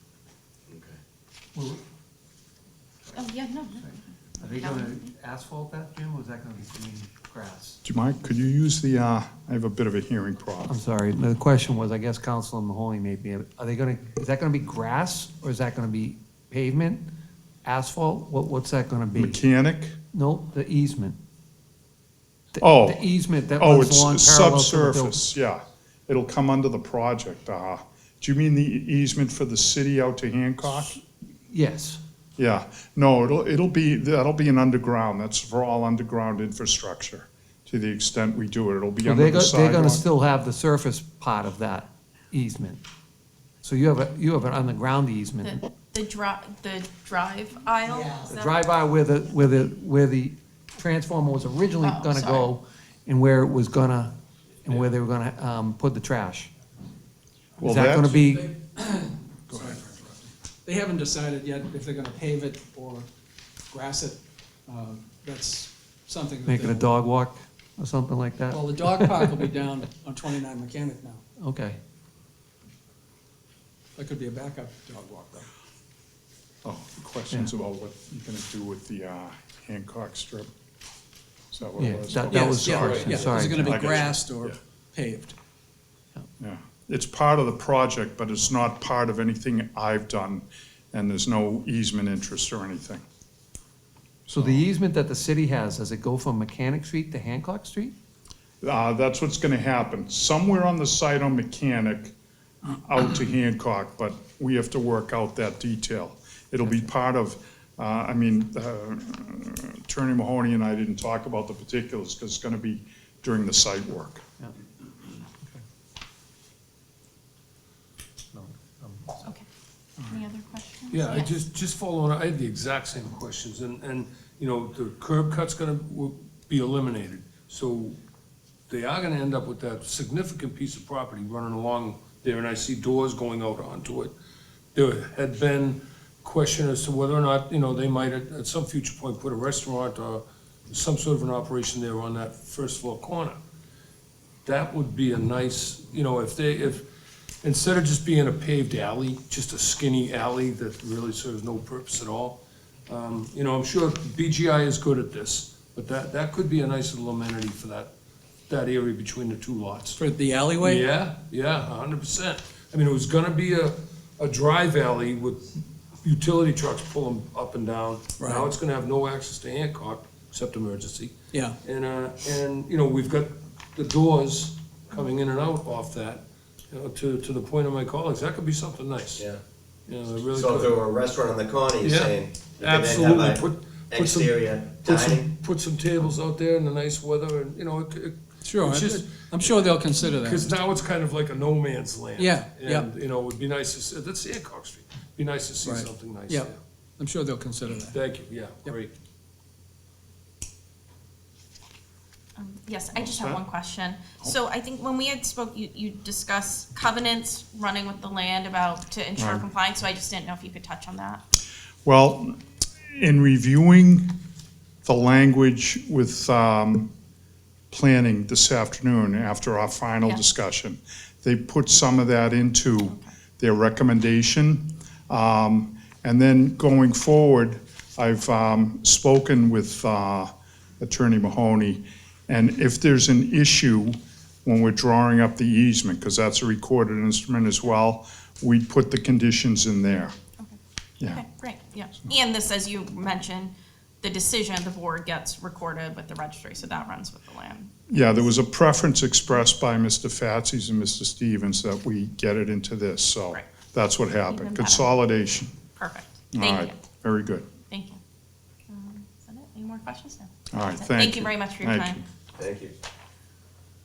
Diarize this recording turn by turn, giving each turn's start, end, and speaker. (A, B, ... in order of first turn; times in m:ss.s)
0:00.7-0:01.0 A
0:01.6-0:01.8 B
0:03.1-0:05.0 C
0:03.8-0:07.8 B
0:07.8-0:10.8 D
0:10.7-0:17.1 B
0:17.6-0:19.4 B
0:19.2-0:20.0 D
0:20.1-0:21.2 B
0:22.5-0:25.2 B
0:22.6-0:31.0 D
0:31.5-0:32.0 B
0:32.4-0:40.1 D
0:39.0-0:42.8 B
0:43.6-0:45.6 B
0:45.4-0:48.6 C
0:48.2-0:56.5 B
0:51.8-0:52.5 C
0:57.6-0:58.2 D
0:57.6-0:58.5 B
0:58.5-1:03.1 E
0:59.5-0:59.9 D
1:03.7-1:06.9 E
1:06.5-1:09.5 B
1:08.5-1:11.2 E
1:11.4-1:11.8 B
1:14.0-1:15.5 E
1:16.6-1:20.5 D
1:21.5-1:24.6 D
1:21.8-1:24.0 B
1:22.3-1:25.4 E
1:23.1-1:23.9 A
1:26.4-1:33.0 D
1:34.3-1:38.0 B
1:34.3-1:34.6 D
1:38.6-1:42.2 D
1:42.7-1:54.2 D
1:58.3-1:59.2 B
2:00.1-2:01.3 C
2:00.9-2:08.0 F
2:08.7-2:14.2 F
2:14.7-2:23.4 F
2:24.4-2:26.9 F
2:27.4-2:37.9 F
2:38.5-2:40.0 F
2:40.0-2:40.9 E
2:40.6-2:59.3 F
2:48.2-2:48.5 E
2:59.1-2:59.4 A
2:59.9-3:00.9 F
3:00.3-3:05.4 A
3:01.8-3:16.6 F
3:08.4-3:10.6 E
3:12.2-3:12.9 E
3:15.6-3:18.0 E
3:17.9-3:18.9 F
3:22.4-3:31.2 C
3:23.0-3:23.4 D
3:29.2-3:29.5 D
3:31.8-3:32.4 D
3:32.9-3:34.1 D
3:34.8-3:36.9 D
3:37.7-4:00.1 D
4:01.1-4:08.2 C
4:07.9-4:15.5 D
4:14.3-4:15.0 C
4:15.8-4:16.8 C
4:16.3-4:17.5 D
4:17.7-4:18.0 C
4:18.7-4:22.0 C
4:20.5-4:22.0 D
4:22.4-4:22.8 A